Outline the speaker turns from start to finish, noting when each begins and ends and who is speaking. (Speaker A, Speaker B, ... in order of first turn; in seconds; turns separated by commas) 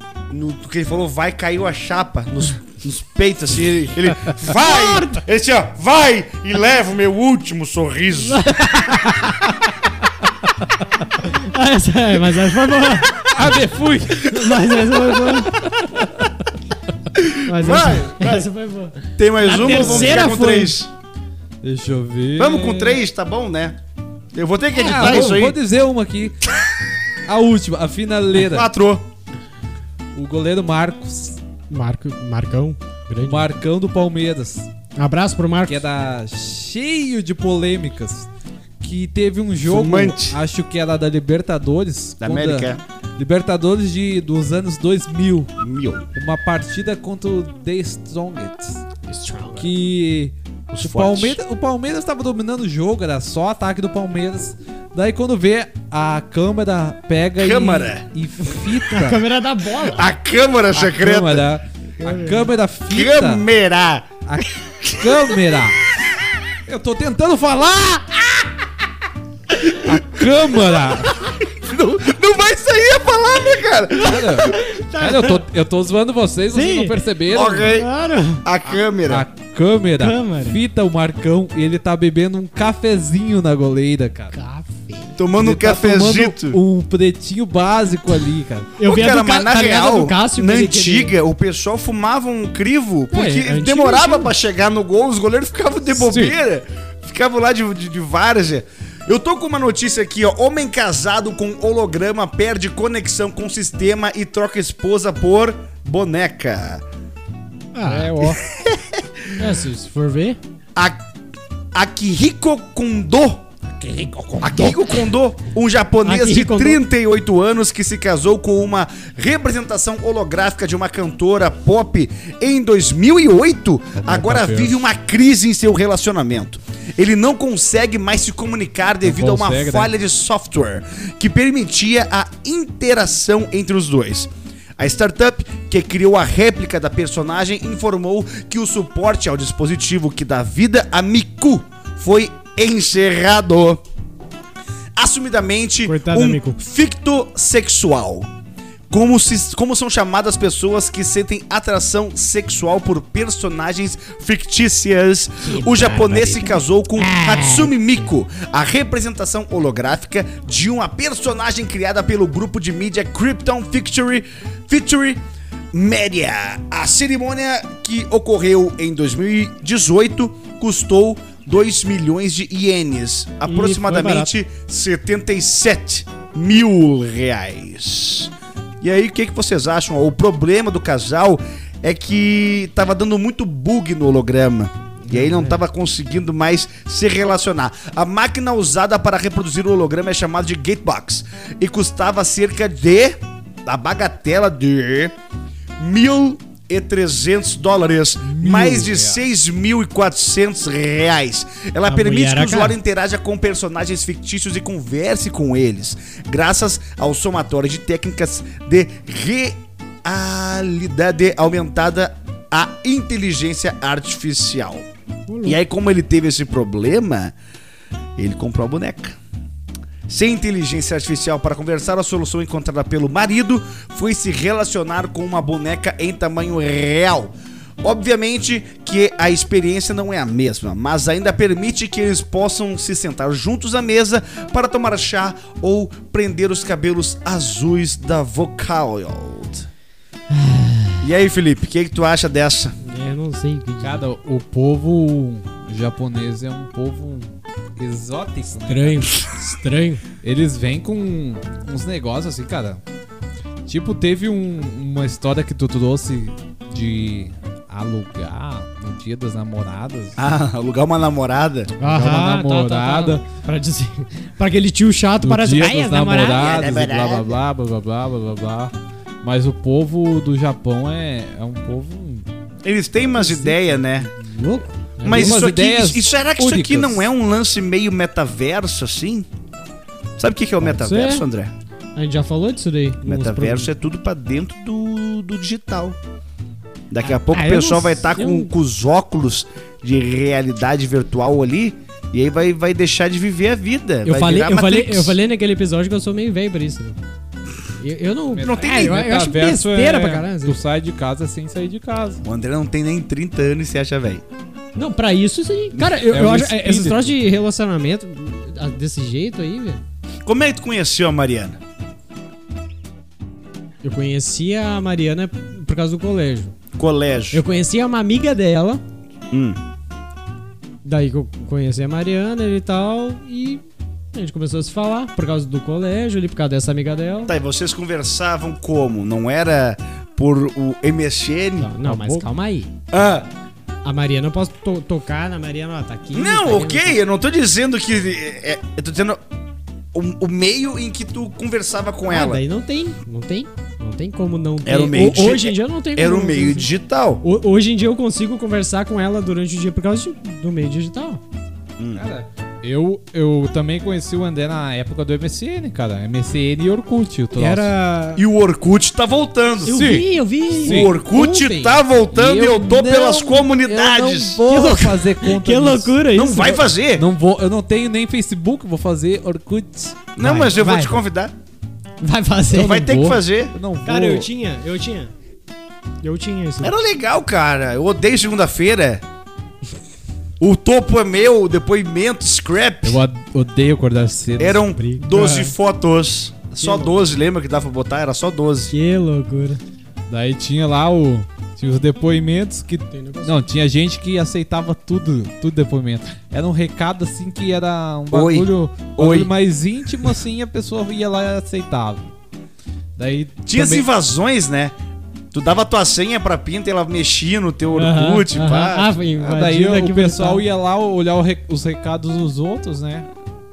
Speaker A: 0.3-8.6, Speaker B: 4.6-5.2, Speaker B: 8.3-9.2, Speaker B: 11.2-13.6, Speaker C: 13.2-15.0, Speaker B: 14.2-15.6, Speaker C: 15.6-16.3, Speaker A: 17.1-18.5, Speaker B: 17.4-20.8, Speaker A: 19.2-20.9, Speaker C: 19.6-20.2, Speaker C: 21.6-23.0, Speaker A: 22.4-23.8, Speaker A: 24.3-25.6, Speaker C: 24.7-26.4, Speaker B: 24.9-25.4, Speaker C: 27.3-28.7, Speaker A: 28.4-29.1, Speaker C: 30.1-31.4, Speaker B: 31.7-33.5, Speaker C: 33.2-34.7, Speaker B: 35.0-35.8, Speaker C: 35.7-38.3, Speaker C: 38.8-45.5, Speaker A: 39.6-40.4, Speaker A: 42.2-42.8, Speaker A: 45.6-46.1, Speaker C: 46.1-48.9, Speaker B: 49.1-49.7, Speaker C: 49.6-59.2, Speaker A: 50.7-51.4, Speaker A: 57.4-58.0, Speaker B: 58.9-60.1, Speaker A: 59.9-61.5, Speaker C: 60.7-63.5, Speaker B: 62.0-62.5, Speaker A: 62.9-65.5, Speaker C: 64.3-65.8, Speaker C: 66.7-68.5, Speaker C: 69.7-71.3, Speaker A: 71.2-74.6, Speaker C: 73.9-77.7, Speaker B: 74.4-75.5, Speaker B: 76.5-77.0, Speaker A: 77.3-77.9, Speaker B: 77.7-78.4, Speaker A: 78.4-79.3, Speaker C: 79.1-84.4, Speaker B: 80.0-80.6, Speaker B: 84.3-85.2, Speaker A: 85.2-86.6, Speaker C: 85.3-88.7, Speaker B: 88.8-91.2, Speaker A: 88.8-106.8, Speaker B: 93.1-94.3, Speaker C: 95.9-96.4, Speaker B: 107.7-108.3, Speaker C: 107.8-108.4, Speaker A: 108.6-109.1, Speaker B: 109.3-110.4, Speaker A: 111.7-113.5, Speaker C: 113.8-114.8, Speaker A: 114.4-143.8, Speaker B: 116.0-116.8, Speaker C: 124.0-124.8, Speaker C: 129.0-129.9, Speaker A: 145.0-148.3, Speaker B: 145.8-146.6, Speaker A: 148.9-165.2, Speaker B: 155.4-158.1, Speaker A: 165.7-195.2, Speaker B: 173.5-174.3, Speaker B: 185.0-185.6, Speaker A: 195.8-214.9, Speaker C: 198.2-199.2, Speaker B: 201.9-202.8, Speaker B: 215.3-215.6, Speaker A: 215.4-217.3, Speaker A: 218.2-219.2, Speaker A: 220.1-239.7, Speaker B: 240.3-241.1, Speaker A: 241.0-242.8, Speaker B: 242.8-244.1, Speaker C: 243.8-249.2, Speaker B: 248.7-250.0, Speaker C: 250.2-252.8, Speaker C: 253.7-260.2, Speaker A: 260.2-261.7, Speaker C: 261.8-263.2, Speaker B: 261.8-266.6, Speaker C: 265.2-272.3, Speaker A: 266.4-267.4, Speaker A: 272.6-274.1, Speaker B: 273.2-275.4, Speaker A: 275.0-279.3, Speaker C: 275.0-277.1, Speaker A: 280.2-281.5, Speaker B: 280.6-281.2, Speaker B: 282.0-283.7, Speaker A: 283.1-286.0, Speaker A: 286.9-295.2, Speaker B: 287.0-288.5, Speaker B: 294.1-297.0, Speaker B: 297.8-300.6, Speaker C: 298.3-302.2, Speaker A: 298.4-299.1, Speaker A: 302.2-304.2, Speaker B: 304.8-309.8, Speaker C: 305.8-307.1, Speaker A: 310.3-311.6, Speaker B: 313.8-316.6, Speaker A: 316.8-317.4, Speaker B: 317.3-318.8, Speaker A: 319.3-319.6, Speaker B: 320.8-327.4, Speaker A: 327.3-331.8, Speaker B: 331.6-332.7, Speaker C: 331.8-332.3, Speaker A: 332.9-333.3, Speaker B: 333.9-337.0, Speaker A: 336.1-339.2, Speaker A: 339.9-342.4, Speaker B: 342.1-346.7, Speaker A: 344.6-347.2, Speaker B: 347.2-351.2, Speaker A: 351.8-352.1, Speaker C: 351.9-357.7, Speaker B: 357.4-358.2, Speaker A: 358.2-359.9, Speaker B: 359.6-361.8, Speaker C: 359.7-360.1, Speaker C: 360.6-360.9, Speaker A: 360.6-364.5, Speaker C: 362.1-366.0, Speaker B: 364.4-366.6, Speaker A: 366.1-367.1, Speaker C: 367.0-370.1, Speaker A: 370.2-371.3, Speaker B: 370.2-371.0, Speaker B: 372.0-373.0, Speaker A: 372.5-373.6, Speaker C: 372.6-374.3, Speaker B: 373.9-375.1, Speaker B: 376.0-376.8, Speaker A: 376.6-379.0, Speaker A: 380.4-383.0, Speaker C: 382.8-385.5, Speaker A: 384.4-388.7, Speaker B: 384.5-385.5, Speaker B: 386.6-386.9, Speaker B: 388.7-389.6, Speaker C: 390.1-402.1, Speaker B: 392.9-393.4, Speaker A: 398.1-399.3, Speaker C: 403.0-403.9, Speaker A: 403.5-404.7, Speaker A: 405.3-409.0, Speaker B: 407.7-410.4, Speaker C: 409.2-413.1